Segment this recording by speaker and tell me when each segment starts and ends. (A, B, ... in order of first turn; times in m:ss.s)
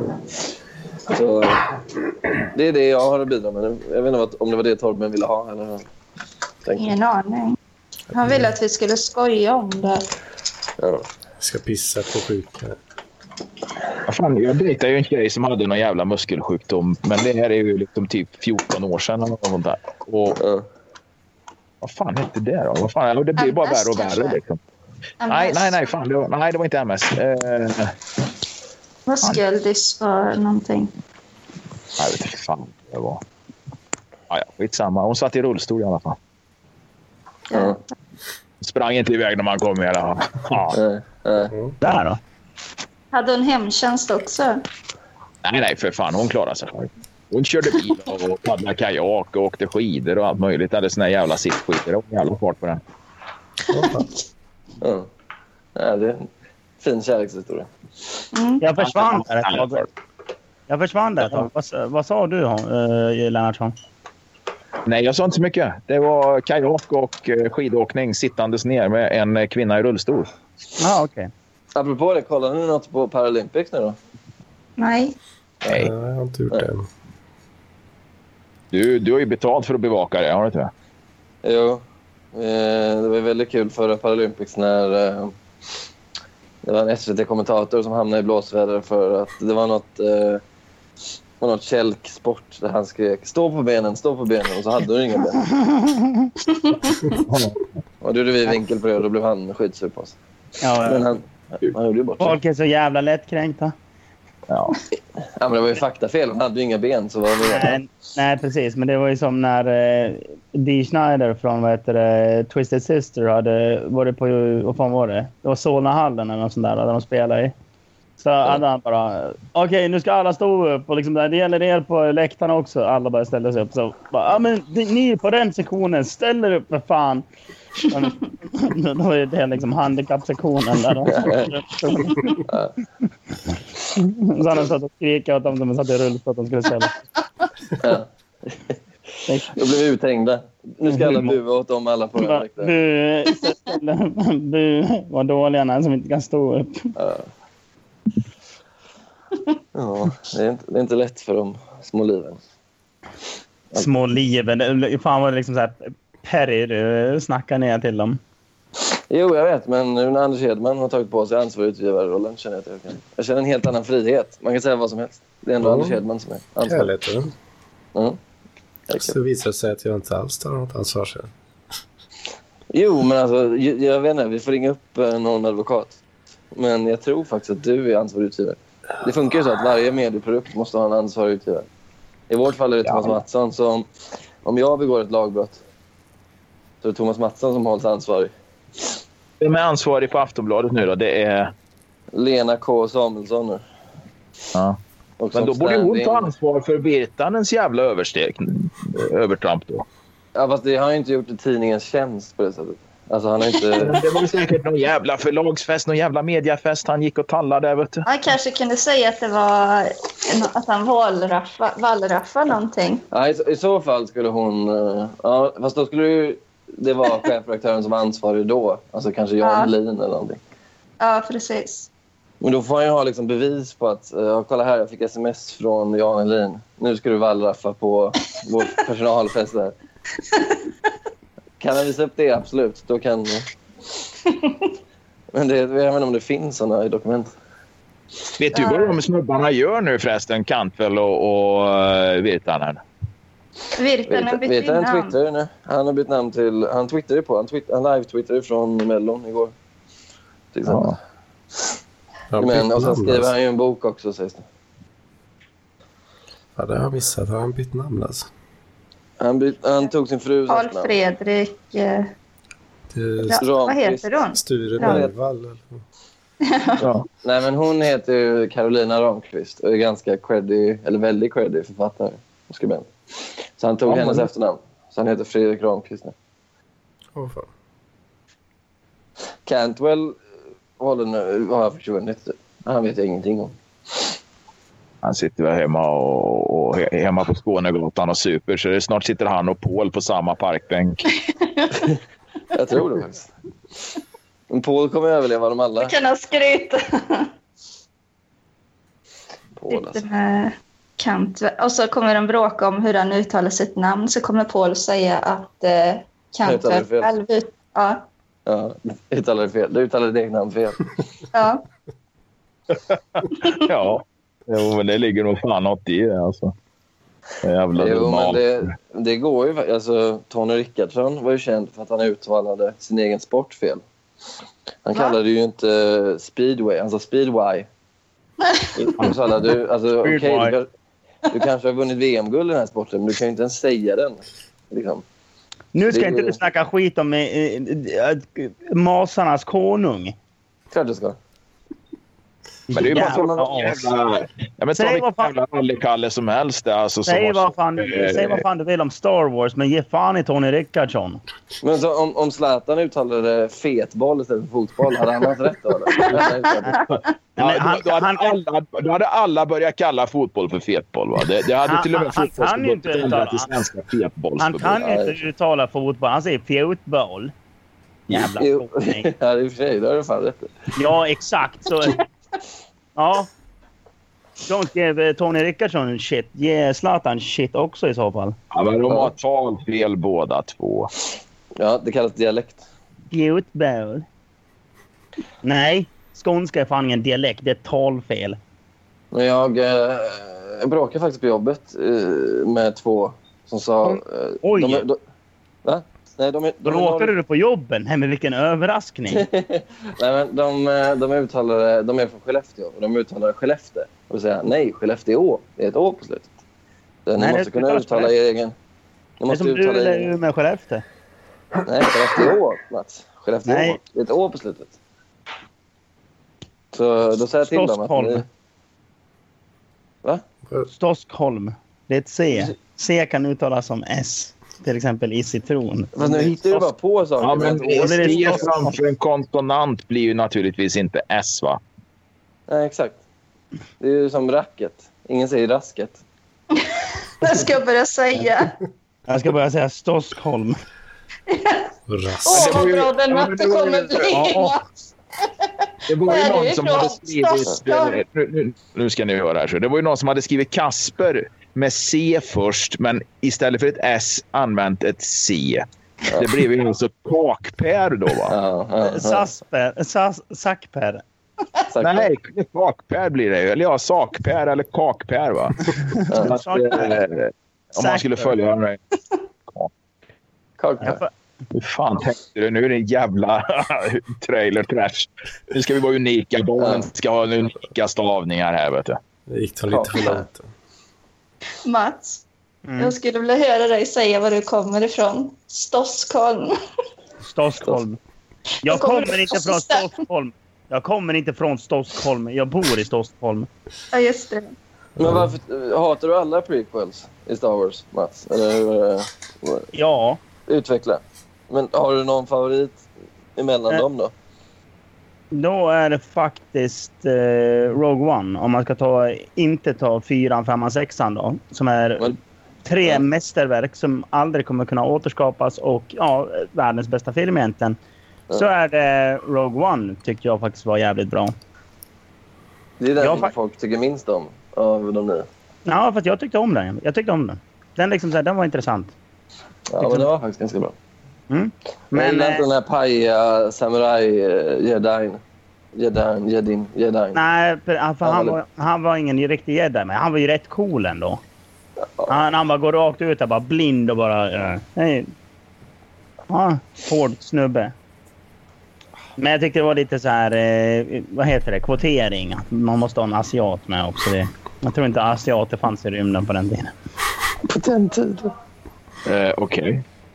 0:01.1-0:05.9 A
0:06.6-0:07.0 A
0:06.8-0:07.6 B
0:08.1-0:10.1 B
0:08.2-0:08.5 C
0:10.8-0:11.1 A
0:11.4-0:12.8 C
0:14.1-0:20.4 D
0:20.4-0:20.6 A
0:21.8-0:24.6 D
0:23.4-0:24.4 B
0:25.2-0:25.8 B
0:25.3-0:28.0 D
0:29.1-0:30.9 B
0:32.0-0:33.2 D
0:34.3-0:36.2 D
0:37.5-0:37.8 B
0:37.5-0:37.8 A
0:38.6-0:40.8 D
0:40.7-0:41.5 A
0:41.5-0:41.7 C
0:41.8-0:42.2 E
0:43.1-0:44.6 B
0:45.4-0:52.8 D
0:53.7-0:54.0 C
0:54.8-0:55.1 A
0:55.8-0:56.3 A
0:56.8-0:57.7 A
0:58.3-0:58.6 B
0:58.6-0:59.9 E
0:58.8-0:59.9 D
1:00.7-1:03.8 E
1:01.2-1:01.5 D
1:04.9-1:10.3 D
1:10.8-1:11.3 E
1:11.8-1:14.0 A
1:14.8-1:15.2 B
1:15.7-1:16.9 C
1:18.7-1:20.7 D
1:21.4-1:25.3 A
1:26.6-1:30.4 A
1:31.4-1:35.4 A
1:35.5-1:36.3 E
1:36.5-1:37.2 B
1:37.1-1:37.6 D
1:38.0-1:40.2 A
1:40.6-1:41.1 E
1:40.8-1:42.4 A
1:42.2-1:43.7 E
1:44.5-1:44.8 D
1:45.4-1:47.8 A
1:47.4-1:57.6 E
1:58.2-2:07.2 E
2:07.8-2:12.4 E
2:11.1-2:11.5 A
2:12.3-2:12.8 A
2:13.5-2:17.0 E
2:17.8-2:18.8 A
2:19.3-2:19.6 E
2:19.5-2:22.7 A
2:20.9-2:21.4 E
2:22.2-2:26.9 E
2:27.0-2:27.3 A
2:29.8-2:32.4 A
2:33.8-2:38.2 E
2:39.1-2:46.9 A
2:45.6-2:46.0 C
2:46.6-2:47.3 C
2:48.9-2:49.2 A
2:49.0-2:51.3 C
2:52.7-2:56.0 A
2:56.5-3:01.6 A
3:02.3-3:03.9 A
3:02.8-3:03.2 D
3:04.4-3:05.6 A
3:06.8-3:08.3 A
3:09.4-3:11.5 D
3:12.1-3:13.6 A
3:14.5-3:14.8 D
3:15.2-3:16.3 A
3:15.3-3:19.9 D
3:20.4-3:24.0 A
3:23.8-3:28.1 D
3:28.1-3:33.0 B
3:33.1-3:40.4 A
3:39.4-3:39.7 B
3:41.0-3:41.9 B
3:42.4-3:49.7 A
3:51.6-3:53.5 A
3:54.3-3:54.6 B
3:55.3-3:57.3 A
3:58.4-4:02.8 D
3:58.5-3:59.0 B
4:03.7-4:05.1 B
4:04.1-4:09.5 A
4:10.5-4:11.0 A
4:10.6-4:11.0 D
4:12.3-4:13.3 C
4:12.4-4:14.4 A
4:16.6-4:18.3 C
4:19.2-4:20.9 A
4:20.5-4:22.1 B
4:22.9-4:23.4 C
4:23.2-4:25.0 B
4:23.4-4:24.1 A
4:24.3-4:25.8 C
4:24.8-4:25.1 A
4:26.4-4:26.8 B
4:26.8-4:27.1 D
4:27.2-4:32.9 A
4:33.6-4:36.1 A
4:33.9-4:34.3 D
4:37.1-4:37.5 C
4:39.5-4:40.2 A
4:40.8-4:44.1 A
4:45.0-4:51.1 D
4:51.2-4:51.9 B
4:52.5-4:53.3 A
4:54.5-4:55.9 A
4:55.8-4:57.3 B
4:59.6-5:00.0 A
4:59.7-5:08.0 B
5:06.4-5:07.1 A
5:08.5-5:10.9 A
5:11.3-5:11.6 B
5:12.7-5:16.5 D
5:17.4-5:18.7 D
5:17.8-5:23.8 A
5:24.8-5:27.7 A
5:28.8-5:30.7 A
5:30.0-5:30.6 E
5:31.3-5:35.0 A
5:35.7-5:40.1 E
5:35.9-5:36.4 A
5:40.7-5:41.2 A
5:42.7-5:43.9 E
5:42.7-5:48.4 D
5:42.9-5:43.8 A
5:44.7-5:45.3 E
5:47.1-5:51.2 E
5:51.6-5:56.8 A
5:56.1-5:56.8 B
5:56.7-6:04.8 D
5:57.4-5:58.3 E
6:01.6-6:03.5 E
6:04.4-6:07.3 E
6:04.8-6:05.2 A
6:08.1-6:09.1 E
6:08.1-6:10.5 A
6:10.8-6:12.0 E
6:13.0-6:13.3 E
6:14.5-6:18.4 E
6:18.5-6:20.9 D
6:21.6-6:22.6 A
6:23.1-6:24.1 E
6:25.4-6:28.4 E
6:29.1-6:35.0 A
6:33.8-6:34.8 E
6:35.6-6:37.1 A
6:36.6-6:39.3 E
6:39.1-6:46.3 A
6:47.1-6:48.6 A
6:47.2-6:48.1 E
6:49.2-6:50.1 A
6:49.3-6:50.8 E
6:51.6-6:54.7 A
6:53.5-6:53.8 E
6:56.7-6:58.2 A
6:57.4-6:58.2 E
7:00.7-7:06.6 E
7:06.0-7:08.5 A
7:07.2-7:11.6 D
7:07.8-7:08.7 E
7:12.5-7:13.0 A
7:13.8-7:16.0 A
7:16.5-7:18.6 B
7:19.1-7:20.6 E
7:21.3-7:21.6 B
7:21.9-7:22.6 C
7:22.2-7:24.6 B
7:22.3-7:24.4 D
7:24.1-7:24.6 E
7:25.9-7:38.4 D
7:26.0-7:28.0 B
7:38.3-7:39.3 A
7:38.8-7:41.0 E
7:41.7-7:42.1 A
7:41.8-7:48.8 D
7:46.0-7:47.0 E
7:46.1-7:46.4 A
7:47.8-7:48.3 E
7:50.6-7:51.0 A
7:50.8-7:51.1 E
7:51.5-7:59.0 D
7:56.6-7:56.9 A
7:59.3-8:00.5 C
7:59.7-8:00.2 A
8:01.6-8:02.2 B
8:02.6-8:03.0 E
8:02.8-8:06.5 B
8:07.2-8:08.0 E
8:08.6-8:13.5 E
8:08.7-8:09.9 B
8:13.9-8:14.5 B
8:15.0-8:19.7 A
8:15.0-8:15.3 C
8:19.7-8:20.2 E
8:20.5-8:22.8 A
8:23.4-8:24.1 A
8:25.3-8:37.8 E
8:38.3-8:41.3 E
8:42.8-8:45.3 A
8:43.0-8:43.3 E
8:45.6-8:49.0 E
8:49.7-8:50.8 A
8:49.8-8:50.1 E
8:51.3-8:52.4 E
8:51.9-8:55.2 A
8:55.8-8:57.2 A
8:57.1-9:01.2 E
8:58.0-8:58.4 A
9:02.1-9:05.1 E
9:06.3-9:07.7 E
9:09.2-9:16.7 E
9:17.5-9:18.3 A
9:19.1-9:19.8 D